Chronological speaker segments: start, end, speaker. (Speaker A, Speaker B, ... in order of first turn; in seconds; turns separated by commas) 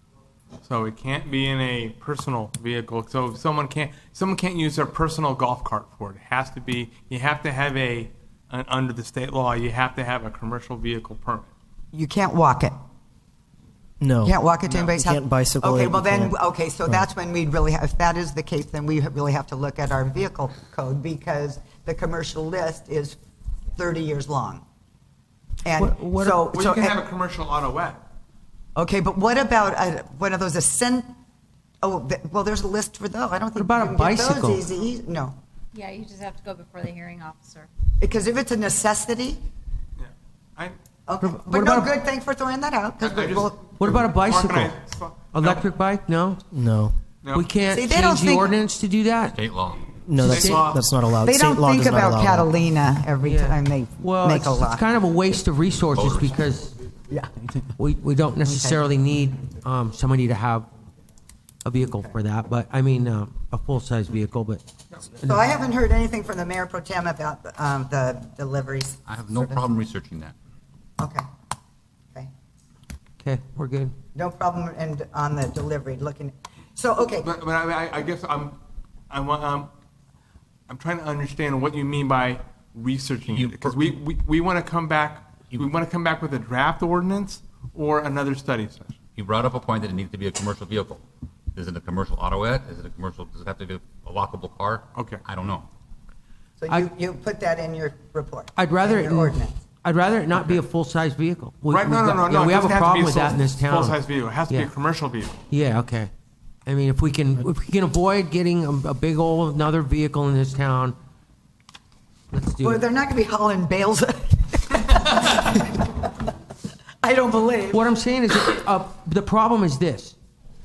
Speaker A: 0.6-11.5, Speaker B: 11.9-12.8, Speaker C: 14.0-14.4, Speaker B: 14.2-23.2, Speaker C: 14.9-16.4, Speaker B: 23.8-24.6, Speaker B: 25.6-27.0, Speaker D: 25.8-26.6, Speaker A: 26.5-28.0, Speaker B: 28.8-31.1, Speaker B: 31.8-35.4, Speaker D: 33.6-34.6, Speaker E: 35.7-37.7, Speaker B: 38.0-39.4, Speaker A: 40.0-40.8, Speaker B: 41.1-43.6, Speaker D: 41.2-41.9, Speaker A: 43.0-45.7, Speaker D: 43.8-44.8, Speaker D: 45.3-46.4, Speaker C: 46.5-47.0, Speaker D: 47.3-49.4, Speaker B: 47.7-48.5, Speaker C: 50.0-52.5, Speaker A: 50.1-50.9, Speaker D: 50.2-50.7, Speaker B: 51.2-54.9, Speaker D: 53.2-56.7, Speaker F: 56.0-56.3, Speaker B: 57.1-57.8, Speaker D: 57.8-60.7, Speaker B: 58.4-58.8, Speaker D: 61.6-64.6, Speaker B: 65.2-69.7, Speaker F: 69.1-70.3, Speaker B: 71.0-71.3, Speaker D: 73.2-73.9, Speaker B: 74.1-77.3, Speaker A: 77.2-78.6, Speaker A: 79.1-79.7, Speaker A: 80.7-89.0, Speaker F: 83.3-83.8, Speaker F: 89.2-95.7, Speaker A: 95.0-95.2, Speaker B: 96.6-99.6, Speaker D: 98.6-104.7, Speaker A: 101.7-105.4, Speaker D: 105.5-106.1, Speaker D: 106.7-111.0, Speaker D: 112.3-112.8, Speaker B: 112.6-116.1, Speaker B: 117.0-117.8, Speaker D: 117.7-120.2